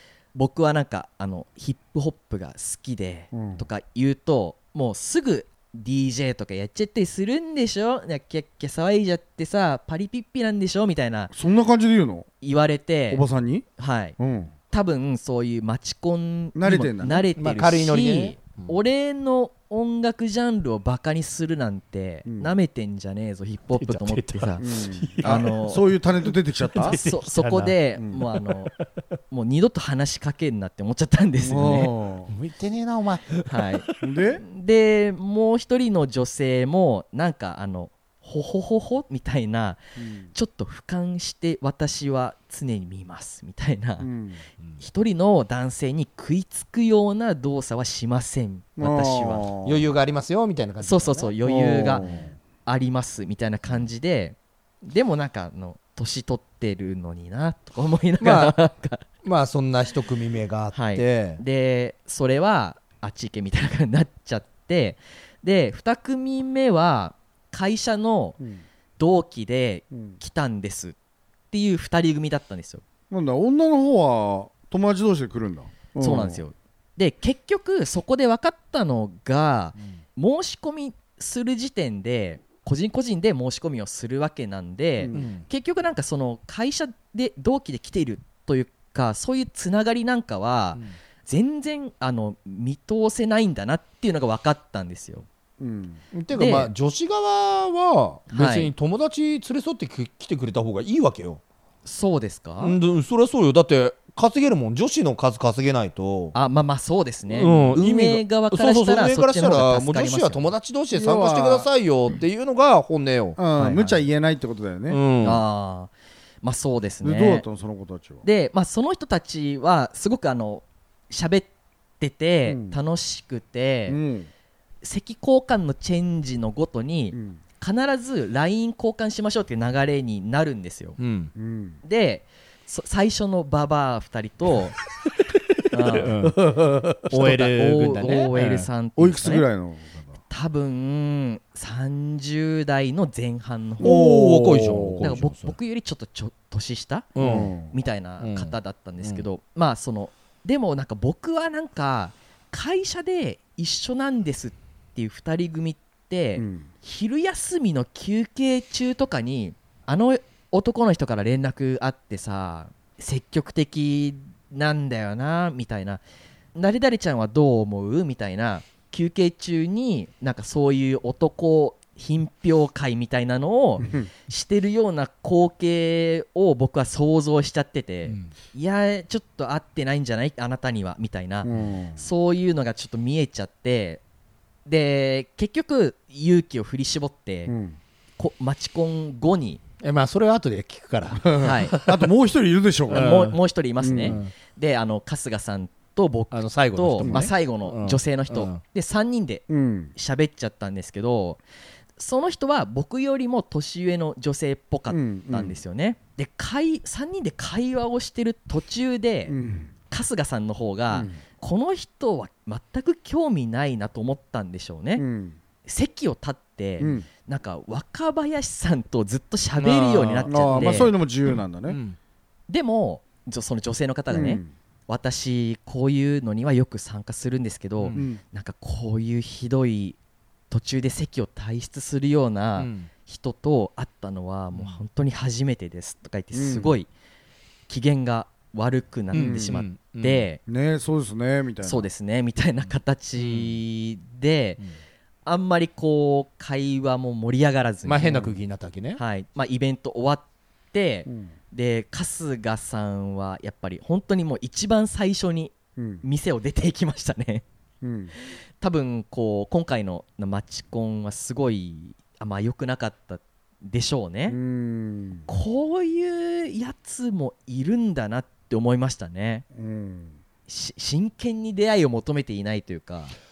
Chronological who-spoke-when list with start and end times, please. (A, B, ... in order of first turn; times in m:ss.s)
0:00.3-0:11.3 A
0:03.3-0:03.6 B
0:11.3-0:12.3 B
0:12.4-0:13.2 A
0:13.1-0:14.5 B
0:13.8-0:14.2 A
0:14.7-0:24.6 A
0:16.6-0:17.3 B
0:17.4-0:18.8 C
0:22.3-0:22.5 B
0:23.8-0:28.9 C
0:24.6-0:27.0 B
0:25.2-0:25.9 A
0:26.8-0:28.7 A
0:28.0-0:28.2 B
0:29.3-0:31.9 A
0:31.4-0:32.3 B
0:32.3-0:34.2 C
0:33.5-0:33.9 A
0:34.0-0:34.4 B
0:34.4-0:39.8 A
0:40.0-0:40.3 B
0:40.3-0:44.1 A
0:44.0-0:44.4 B
0:44.8-0:49.5 A
0:48.8-0:49.8 B
0:49.6-0:52.3 C
0:50.8-0:52.0 A
0:51.5-0:52.3 B
0:52.6-0:59.0 A
0:58.2-0:58.6 C
0:59.2-1:01.4 C
1:00.7-1:08.4 A
1:09.0-1:11.0 A
1:09.9-1:10.2 B
1:11.5-1:12.8 A
1:13.1-1:16.4 B
1:16.0-1:35.3 A
1:25.0-1:25.2 B
1:25.1-1:25.5 C
1:35.6-1:36.0 B
1:36.1-1:41.4 C
1:36.3-1:36.7 A
1:38.3-1:38.7 A
1:41.8-1:42.8 A
1:42.6-1:46.4 C
1:46.4-1:50.5 A
1:47.3-1:53.4 C
1:50.9-1:51.7 B
1:53.4-1:55.0 B
1:53.6-1:54.0 A
1:54.9-1:55.4 C
1:55.2-1:57.5 A
1:57.0-1:58.2 B
1:58.2-2:01.5 A
2:02.0-2:04.0 A
2:02.5-2:02.8 B
2:03.9-2:04.3 B
2:04.8-2:11.0 A
2:07.1-2:07.4 B
2:11.0-2:11.3 C
2:11.4-2:11.8 B
2:11.8-2:14.8 A
2:15.7-2:16.4 A
2:15.8-2:16.5 C
2:16.3-2:17.1 B
2:17.1-2:18.7 C
2:17.1-2:19.5 A
2:19.0-2:20.1 B
2:20.3-2:24.0 A
2:23.8-2:25.1 B
2:23.8-2:25.6 C
2:25.0-2:46.0 A
2:27.2-2:27.5 C
2:27.2-2:27.8 B
2:28.2-2:29.2 C
2:36.4-2:36.7 B
2:46.6-3:04.0 A
2:53.8-2:54.1 B
2:58.1-2:58.3 C
3:01.4-3:02.0 B
3:04.7-3:07.5 A
3:07.5-3:07.8 B
3:08.2-3:09.6 A
3:09.8-3:12.1 C
3:11.2-3:13.2 B
3:11.4-3:11.8 A
3:12.9-3:13.4 C
3:12.9-3:21.4 A
3:13.8-3:14.2 B
3:14.0-3:14.3 C
3:16.3-3:18.6 C
3:17.0-3:17.3 B
3:19.5-3:19.9 B
3:22.0-3:29.4 A
3:24.9-3:25.6 B
3:29.3-3:29.7 B
3:29.9-3:35.0 A
3:30.9-3:31.2 B
3:35.0-3:35.4 B
3:35.6-3:40.9 A
3:36.8-3:37.1 B
3:39.6-3:42.0 C
3:40.3-3:41.8 B
3:42.5-3:50.0 A
3:44.1-3:44.5 B
3:47.8-3:48.1 C
3:47.9-3:48.2 B
3:50.5-3:56.9 A
3:52.6-3:52.9 C
3:54.5-3:54.8 C
3:56.3-3:56.8 B
3:57.7-4:00.4 A
3:59.1-4:00.3 C
3:59.1-3:59.6 B
4:00.5-4:01.9 B
4:01.6-4:04.6 A
4:03.2-4:03.6 C
4:05.2-4:08.4 A
4:07.8-4:09.0 C
4:09.0-4:17.4 A
4:11.1-4:11.3 B
4:15.8-4:16.0 B
4:17.8-4:18.1 B
4:18.6-4:24.4 A
4:24.3-4:25.3 B
4:25.3-4:29.4 A
4:29.6-4:30.2 B
4:30.5-4:33.2 A